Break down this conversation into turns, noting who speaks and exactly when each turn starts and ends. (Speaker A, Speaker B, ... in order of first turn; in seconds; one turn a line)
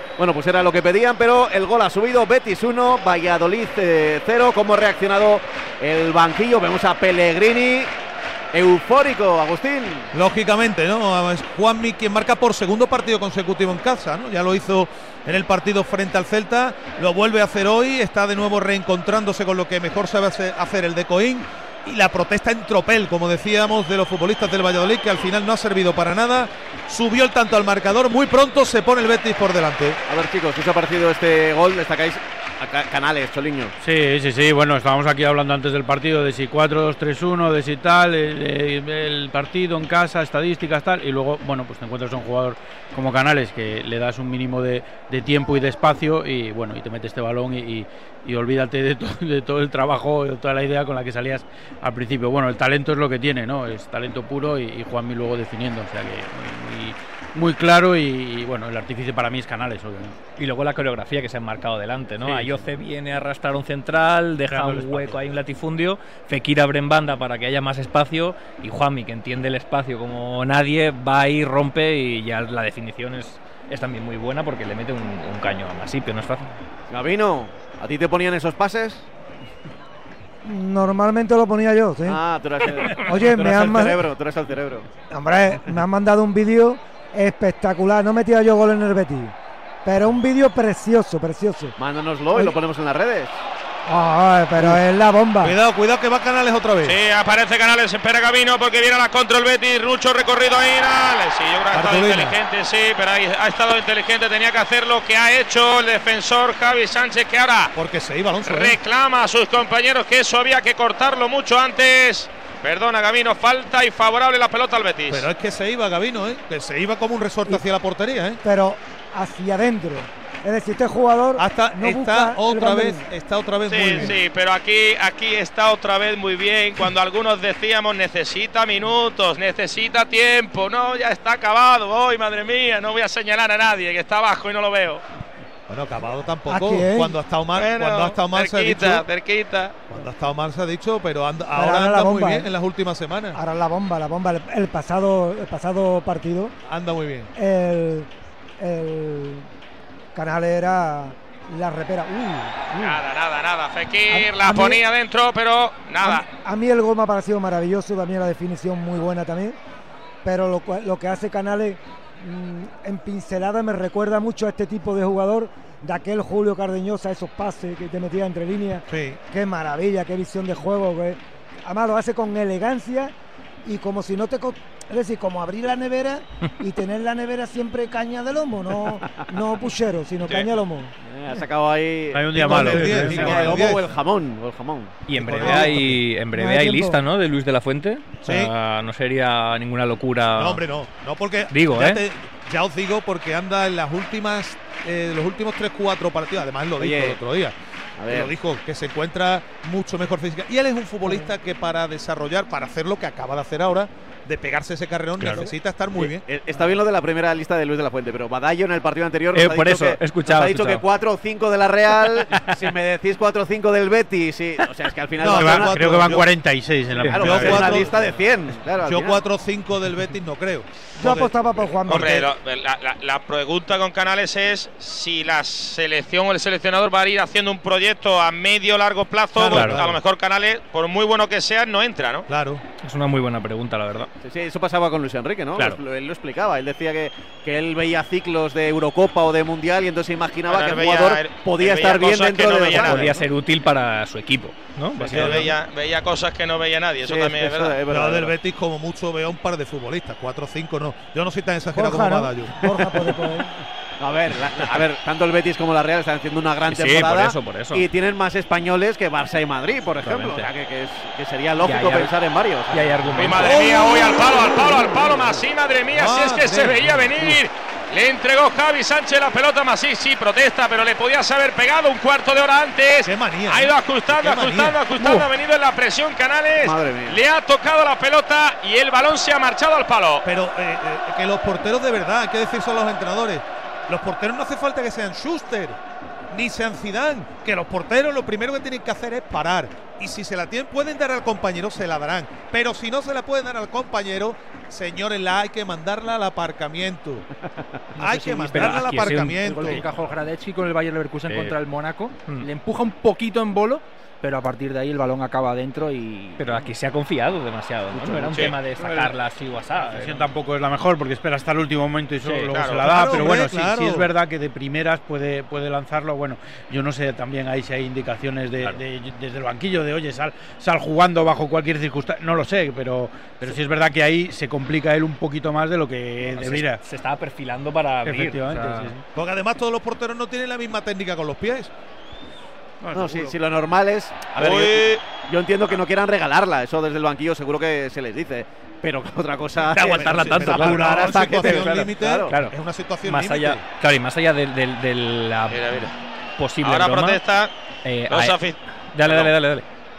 Speaker A: 0.2-7.9
Speaker A: 8.5-10.1
Speaker B: 10.1-30.0
Speaker A: 30.1-33.7
Speaker C: 33.8-60.2
Speaker D: 60.3-76.5
Speaker C: 62.2-62.6
Speaker C: 64.5-65.2
Speaker A: 76.9-79.1
Speaker E: 80.4-82.2
Speaker A: 82.0-84.9
Speaker E: 83.0-84.0
Speaker E: 85.1-89.3
Speaker E: 89.8-91.8
Speaker A: 91.8-93.4
Speaker E: 93.9-95.6
Speaker B: 95.4-97.0
Speaker F: 96.8-107.7
Speaker B: 101.7-102.3
Speaker B: 107.8-108.8
Speaker F: 108.4-115.3
Speaker B: 115.1-118.4
Speaker E: 118.4-123.0
Speaker B: 121.4-124.2
Speaker F: 123.7-135.0
Speaker B: 135.7-139.0
Speaker E: 136.5-137.2
Speaker F: 137.6-139.8
Speaker B: 139.9-143.4
Speaker E: 141.5-142.5
Speaker E: 143.4-146.5
Speaker B: 146.7-147.3
Speaker E: 147.4-148.1
Speaker E: 148.6-149.5
Speaker E: 150.2-153.0
Speaker F: 152.8-156.2
Speaker E: 154.1-154.8
Speaker E: 156.0-159.6
Speaker E: 160.2-181.4
Speaker B: 168.9-169.2
Speaker A: 179.0-179.3
Speaker A: 181.0-185.0
Speaker C: 182.1-183.7
Speaker B: 182.4-183.9
Speaker D: 185.1-190.7
Speaker B: 185.1-186.1
Speaker E: 186.3-187.0
Speaker B: 188.2-188.5
Speaker B: 190.3-197.5
Speaker D: 191.5-192.0
Speaker A: 196.8-197.2
Speaker A: 198.0-198.3
Speaker B: 198.1-206.3
Speaker C: 205.2-205.5
Speaker A: 205.9-216.1
Speaker D: 209.3-210.8
Speaker D: 212.2-212.6
Speaker B: 215.2-216.3
Speaker C: 215.3-217.8
Speaker D: 216.9-217.6
Speaker A: 217.0-219.3
Speaker B: 217.1-218.0
Speaker B: 218.8-222.3
Speaker E: 221.0-222.3
Speaker F: 221.9-232.3
Speaker B: 229.4-230.0
Speaker D: 229.5-229.8
Speaker B: 232.3-232.6
Speaker D: 232.8-234.1
Speaker A: 234.2-243.1
Speaker F: 240.5-243.2
Speaker D: 242.8-245.5
Speaker F: 245.0-247.8
Speaker B: 245.1-245.5
Speaker A: 247.0-248.3
Speaker B: 247.9-252.7
Speaker E: 251.7-253.5
Speaker A: 254.0-263.1
Speaker D: 256.7-257.9
Speaker D: 260.0-260.5
Speaker D: 261.6-262.1
Speaker D: 262.7-263.6
Speaker F: 263.1-280.2
Speaker B: 263.4-265.1
Speaker A: 265.1-265.4
Speaker B: 265.9-267.4
Speaker B: 273.0-275.2
Speaker A: 276.6-277.2
Speaker B: 280.2-285.8
Speaker B: 286.3-297.2
Speaker B: 298.0-299.9
Speaker G: 298.0-306.6
Speaker D: 298.2-299.9
Speaker D: 301.3-301.6
Speaker D: 306.4-310.4
Speaker G: 308.0-308.5
Speaker C: 308.7-309.2
Speaker C: 309.8-326.8
Speaker D: 312.2-313.3
Speaker F: 312.5-313.3
Speaker B: 312.8-314.1
Speaker D: 326.3-329.0
Speaker C: 328.0-329.0
Speaker B: 329.1-331.7
Speaker C: 332.9-333.3
Speaker A: 332.9-342.4
Speaker F: 334.4-335.0
Speaker D: 339.7-347.2
Speaker B: 339.8-343.6
Speaker C: 341.2-341.9
Speaker F: 345.5-345.9
Speaker F: 346.6-347.5
Speaker D: 347.9-348.4
Speaker F: 348.1-349.3
Speaker D: 348.9-349.6